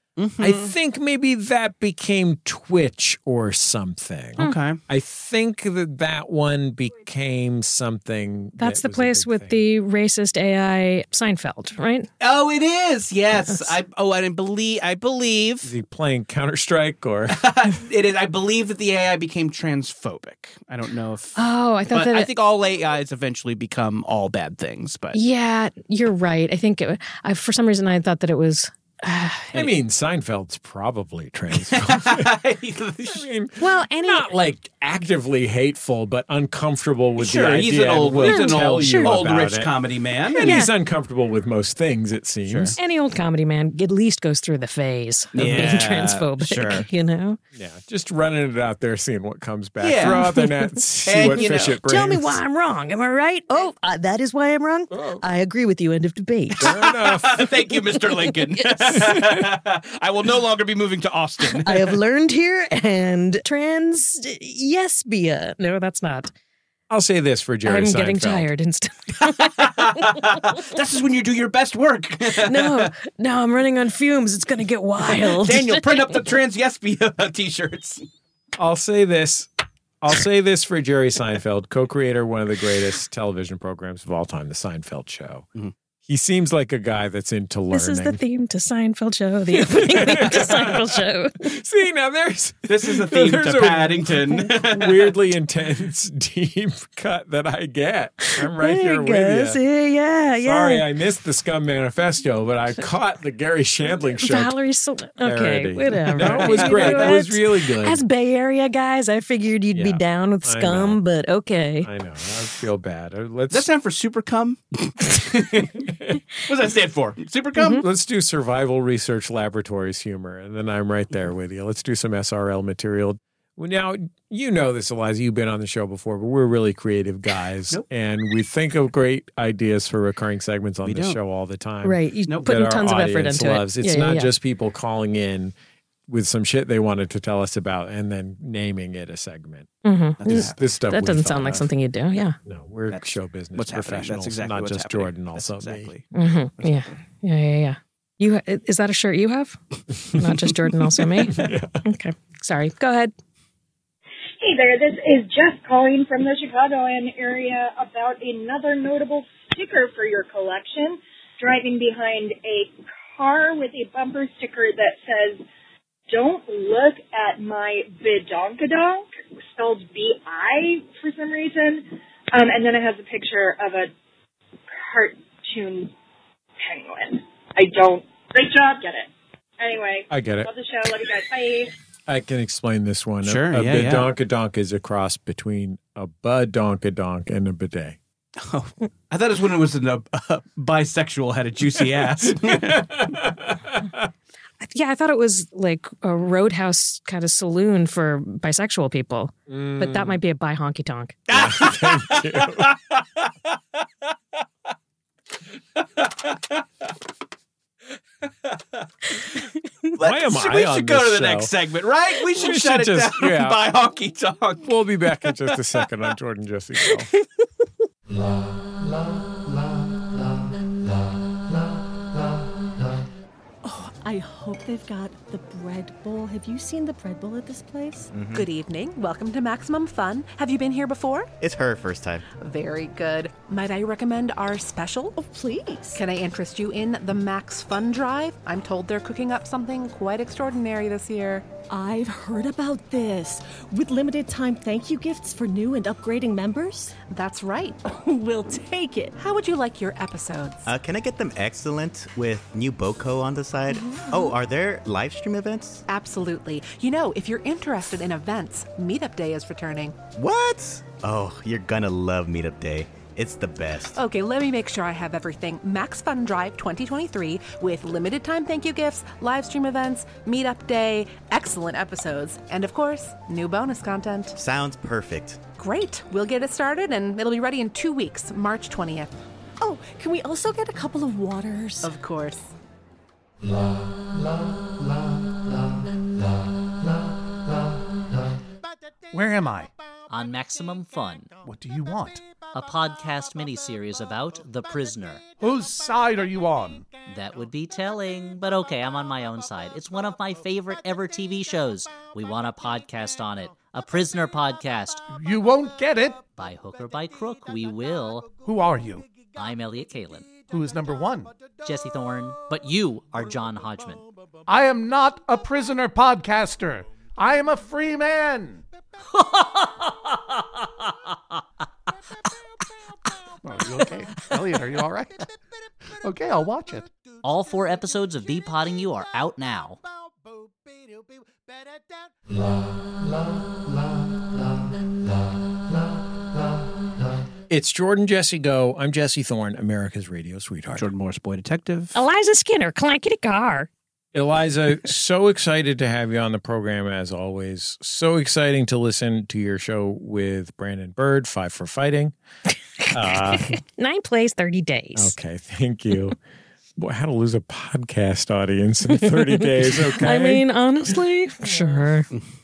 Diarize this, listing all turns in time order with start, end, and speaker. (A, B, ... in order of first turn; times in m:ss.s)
0:00.2-0:00.7 A
0:00.4-0:09.6 B
0:04.4-0:04.8 A
0:08.6-0:12.1 C
0:12.2-0:15.7 A
0:15.6-0:17.5 B
0:17.3-0:25.2 A
0:21.4-0:22.3 C
0:25.1-0:29.7 C
0:29.5-0:32.3 B
0:31.6-0:33.2 A
0:33.0-0:39.7 B
0:33.6-0:34.3 C
0:37.2-0:40.5 A
0:38.2-0:39.1 C
0:40.3-0:42.8 B
0:40.4-0:40.7 C
0:42.5-0:42.8 A
0:42.8-0:47.4 C
0:45.3-0:46.8 A
0:45.4-0:45.6 B
0:47.5-0:52.4 B
0:49.8-0:50.2 A
0:50.2-0:50.5 C
0:51.0-0:51.8 A
0:51.2-0:56.7 C
0:54.9-0:55.2 B
0:56.6-0:57.5 B
0:56.6-1:01.9 A
0:58.0-0:59.2 C
1:01.4-1:06.3 C
1:06.9-1:08.5 B
1:07.6-1:10.3 C
1:09.2-1:12.9 A
1:12.4-1:15.9 C
1:15.0-1:18.0 A
1:18.6-1:19.5 B
1:20.0-1:25.4 B
1:26.0-1:28.2 B
1:27.7-1:31.4 C
1:29.5-1:39.6 B
1:32.7-1:35.2 A
1:38.3-1:40.8 C
1:40.4-1:44.5 B
1:44.2-1:51.9 C
1:45.2-1:48.0 B
1:46.2-1:47.1 A
1:49.7-1:51.0 B
1:51.8-1:53.7 B
1:53.5-1:57.8 A
1:57.6-1:57.8 C
1:57.7-2:15.5 B
2:10.8-2:11.2 A
2:11.8-2:14.3 C
2:16.1-2:19.7 B
2:19.8-2:22.4 C
2:20.2-2:20.6 A
2:20.2-2:21.7 B
2:22.4-2:25.9 B
2:22.9-2:26.0 A
2:26.1-2:33.1 C
2:26.6-2:26.9 A
2:31.2-2:31.8 B
2:34.4-2:45.4 D
2:46.1-2:53.9 D
2:54.8-2:55.9 D
2:56.6-3:01.7 D
3:00.1-3:00.5 B
3:02.1-3:08.0 B
3:03.2-3:04.1 A
3:08.4-3:13.0 A
3:12.2-3:14.1 B
3:14.6-3:21.2 C
3:19.5-3:20.2 B
3:21.3-3:23.3 A
3:21.3-3:22.7 B
3:26.0-3:26.4 A
3:30.0-3:34.7 A
3:30.0-3:31.5 B
3:32.2-3:33.6 B
3:34.6-3:37.1 B
3:43.6-3:48.1 E
3:48.1-3:48.5 F
3:48.3-3:51.3 G
3:51.4-3:52.3 F
3:52.4-3:55.2 G
3:55.2-3:56.0 E
3:55.9-4:01.4 G
4:01.7-4:07.0 E
4:07.1-4:07.8 G
4:07.8-4:09.2 E
4:09.2-4:10.7 G
4:10.6-4:15.8 F
4:13.9-4:14.3 G
4:15.9-4:20.0 G
4:20.1-4:24.0 F
4:23.9-4:34.4 G
4:34.4-4:35.4 F
4:35.6-4:39.2 G
4:39.6-4:41.9 E
4:41.8-4:42.5 G
4:49.1-4:49.7 H
4:50.1-4:51.3 I
4:51.4-4:52.2 H
4:52.5-4:55.2 I
4:55.4-4:56.9 H
4:57.0-5:05.0 I
5:05.1-5:06.2 H
5:06.4-5:08.3 I
5:08.4-5:09.1 H
5:09.3-5:10.3 I
5:10.5-5:11.3 H
5:11.6-5:14.0 I
5:14.5-5:18.6 H
5:19.1-5:19.9 I
5:23.4-5:25.3 H
5:26.0-5:26.9 H
5:27.2-5:29.8 I
5:37.5-5:40.9 B
5:40.8-5:42.0 A
5:41.9-5:43.7 C
5:44.1-5:52.1 B
5:52.9-5:53.6 B
5:53.1-5:55.2 C
5:54.9-5:56.2 B
5:56.8-6:00.4 B
5:59.0-6:02.1 C
6:01.4-6:01.9 B